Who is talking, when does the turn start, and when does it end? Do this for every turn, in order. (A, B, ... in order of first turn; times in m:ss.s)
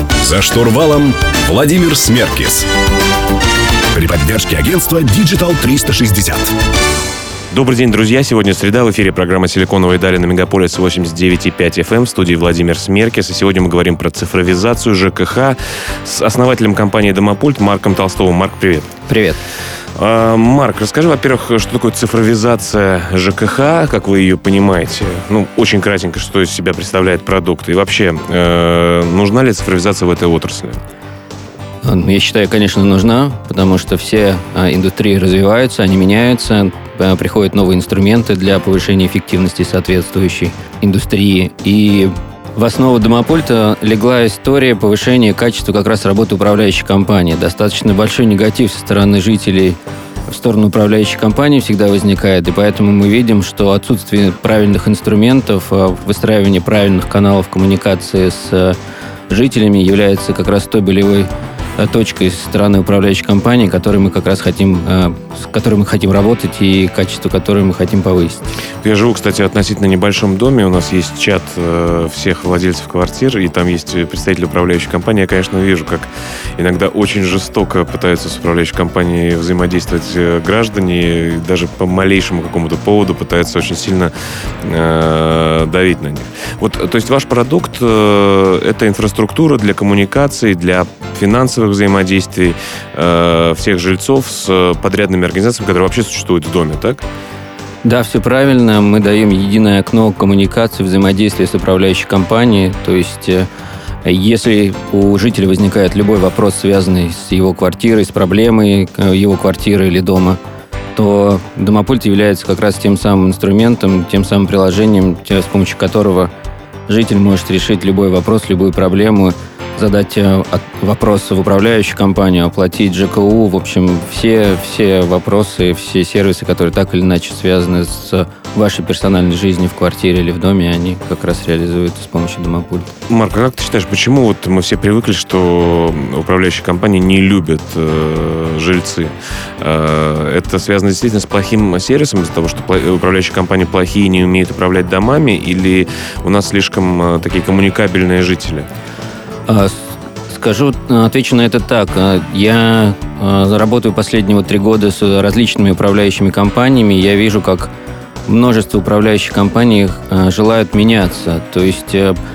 0:00.2-0:02.7 A
0:03.9-0:06.6 A
0:07.5-0:18.9 B
0:19.1-0:19.4 C
0:20.0-0:30.8 B
0:31.8-0:58.8 C
0:59.3-1:08.5 C
1:08.8-1:37.0 B
1:37.8-1:43.5 C
1:44.0-1:50.4 C
1:51.0-1:56.3 C
1:56.9-2:12.9 C
2:13.1-2:28.7 B
2:29.5-2:37.7 C
2:38.3-2:42.2 C